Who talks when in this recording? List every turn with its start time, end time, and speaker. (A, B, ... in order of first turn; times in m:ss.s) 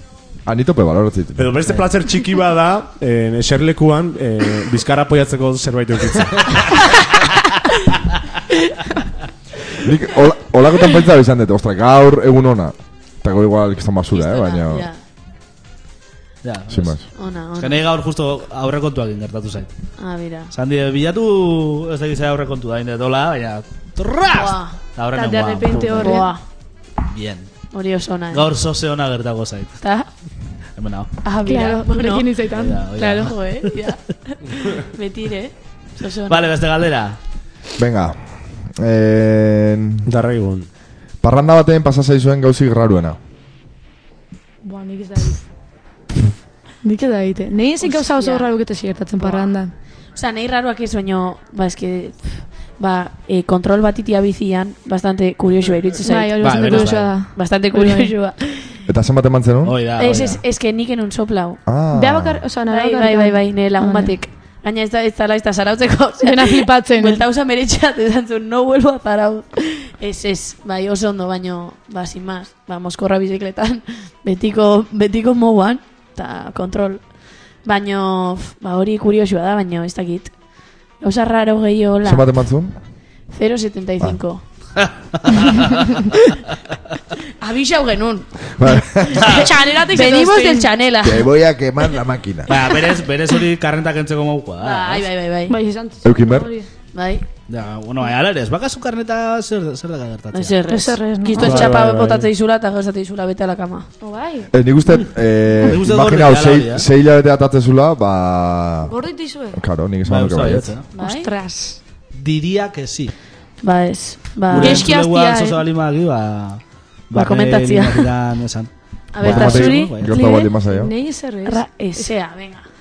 0:00.4-0:01.7 A
0:01.4-0:06.9 B
0:09.8-0:14.9 A
0:14.1-0:15.0 C
0:16.4-0:17.0 D
0:16.7-0:17.0 A
0:17.2-0:17.8 C
0:17.6-0:19.7 D
0:20.0-0:20.5 C
0:20.5-0:26.2 D
0:24.3-0:24.8 C
0:25.1-0:26.3 E
0:26.0-0:26.4 C
0:27.1-0:27.5 D
0:27.7-0:28.5 C
0:28.3-0:29.8 D
0:29.8-0:30.1 C
0:30.8-0:31.1 D
0:31.2-0:32.4 C
0:31.4-0:32.8 E
0:32.5-0:33.7 D
0:33.0-0:36.5 C
0:36.3-0:37.2 D
0:37.8-0:38.2 A
0:38.8-0:40.1 A
0:40.0-0:40.7 B
0:41.2-0:43.2 A
0:44.6-0:45.4 E
0:46.8-0:49.7 E
0:47.8-0:48.5 C
0:50.1-0:58.8 C
0:56.0-0:58.1 E
0:56.4-0:57.1 D
0:58.9-0:59.7 A
0:59.6-1:00.4 D
1:00.0-1:01.6 C
1:01.7-1:02.4 A
1:01.9-1:04.1 E
1:02.7-1:17.0 C
1:06.2-1:07.2 E
1:17.6-1:20.3 C
1:21.0-1:22.3 C
1:22.0-1:22.7 A
1:23.3-1:24.4 C
1:24.8-1:25.9 D
1:27.4-1:28.3 C
1:28.6-1:29.3 A
1:29.2-1:29.4 D
1:29.3-1:30.7 E
1:29.9-1:31.3 C
1:31.0-1:32.5 A
1:32.5-1:35.0 D
1:34.6-1:35.6 C
1:35.5-1:36.7 E
1:36.0-1:36.5 A
1:36.9-1:37.2 C
1:37.5-1:40.5 D
1:40.3-1:43.9 C
1:40.7-1:41.7 E
1:41.4-1:42.3 B
1:44.0-1:44.5 E
1:44.5-1:48.9 A
1:45.6-1:46.8 D
1:48.9-1:49.6 E
1:49.5-1:50.7 A
1:50.0-1:50.9 D
1:51.0-1:51.3 C
1:51.0-1:51.8 E
1:52.1-1:53.1 D
1:53.6-1:54.9 C
1:54.5-2:00.1 D
1:54.6-1:55.6 E
1:57.1-1:58.1 C
1:59.1-2:00.2 C
1:59.2-2:00.9 A
2:00.0-2:02.1 E
2:01.4-2:02.6 C